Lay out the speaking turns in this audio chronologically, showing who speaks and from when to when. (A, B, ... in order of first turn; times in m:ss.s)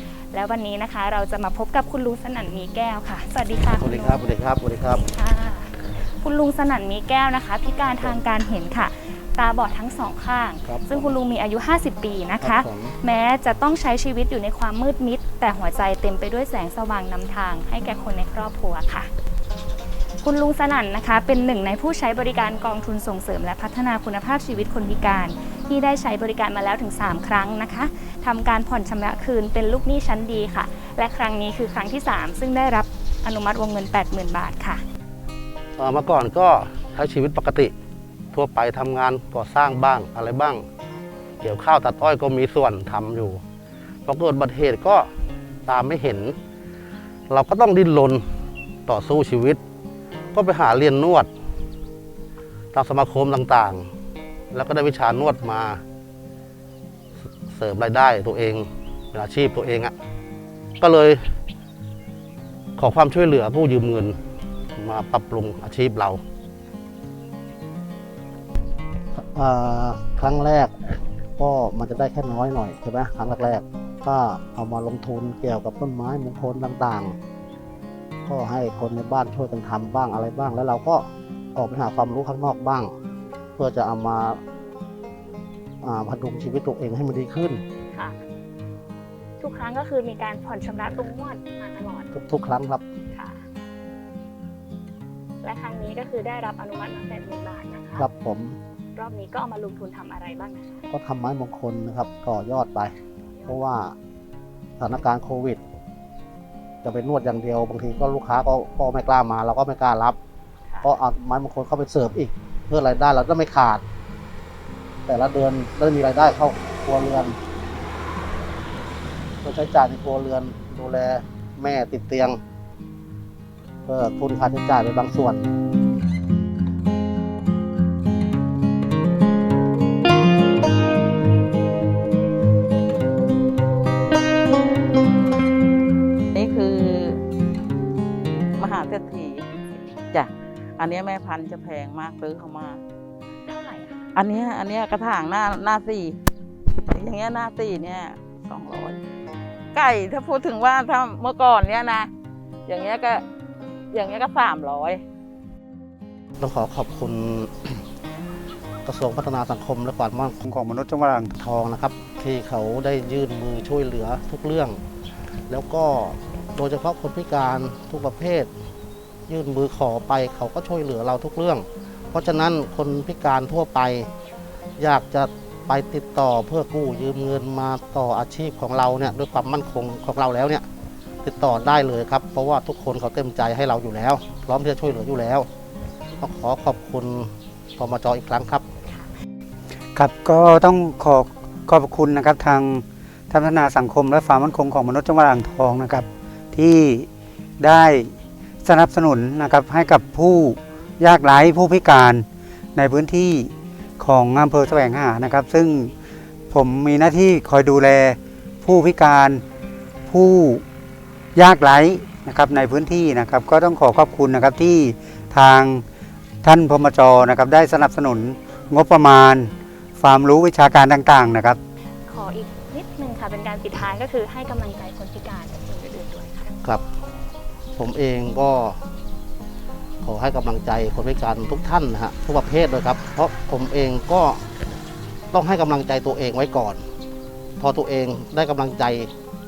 0:00.3-0:04.3 A
0:03.8-0:05.0 B
0:05.0-0:19.1 A
0:10.6-0:11.2 B
0:12.4-0:12.9 B
0:20.2-0:34.8 A
0:35.8-0:37.7 B
0:38.3-0:40.6 B
0:41.4-0:43.4 B
0:44.0-0:45.1 B
0:45.6-0:46.3 B
0:47.3-0:48.2 B
0:48.9-0:49.6 B
0:50.3-0:51.3 B
0:52.7-0:53.9 B
0:54.5-0:55.8 B
0:57.5-0:59.9 B
1:00.8-1:01.2 B
1:02.8-1:04.2 B
1:04.8-1:06.2 B
1:09.3-1:17.2 B
1:18.2-1:22.9 B
1:23.6-1:24.4 B
1:25.8-1:27.6 B
1:29.4-1:32.1 A
1:32.1-1:32.8 B
1:33.1-1:33.4 A
1:35.4-1:38.0 A
1:38.0-1:38.6 B
1:39.0-1:40.8 A
1:40.9-1:42.9 B
1:43.5-1:43.9 B
1:44.8-1:45.6 B
1:46.8-1:50.2 B
1:50.7-1:51.0 A
1:50.8-1:53.8 B
1:55.1-1:57.3 B
1:59.4-2:02.4 B
2:03.8-2:05.5 B
2:16.3-2:17.2 C
2:18.6-2:19.5 C
2:20.1-2:22.8 C
2:23.5-2:24.0 A
2:24.1-2:26.2 C
2:26.9-2:29.0 C
2:29.7-2:32.1 C
2:32.6-2:33.2 C
2:33.9-2:35.0 C
2:36.4-2:37.8 B
2:38.8-2:40.4 B
2:40.4-2:41.3 D
2:41.3-2:44.8 B
2:45.5-2:48.5 B
2:49.3-2:54.1 B
2:54.8-3:00.6 B
3:01.2-3:05.5 B
3:06.2-3:08.6 B
3:09.9-3:17.1 D
3:17.6-3:18.1 D
3:18.6-3:25.9 D
3:26.5-3:29.4 D
3:30.1-3:30.6 D
3:31.3-3:35.8 D
3:36.4-3:41.6 D
3:42.1-3:46.5 A
3:47.8-3:48.8 B
3:50.0-3:54.4 B
3:55.3-3:56.8 B
3:57.6-3:59.1 B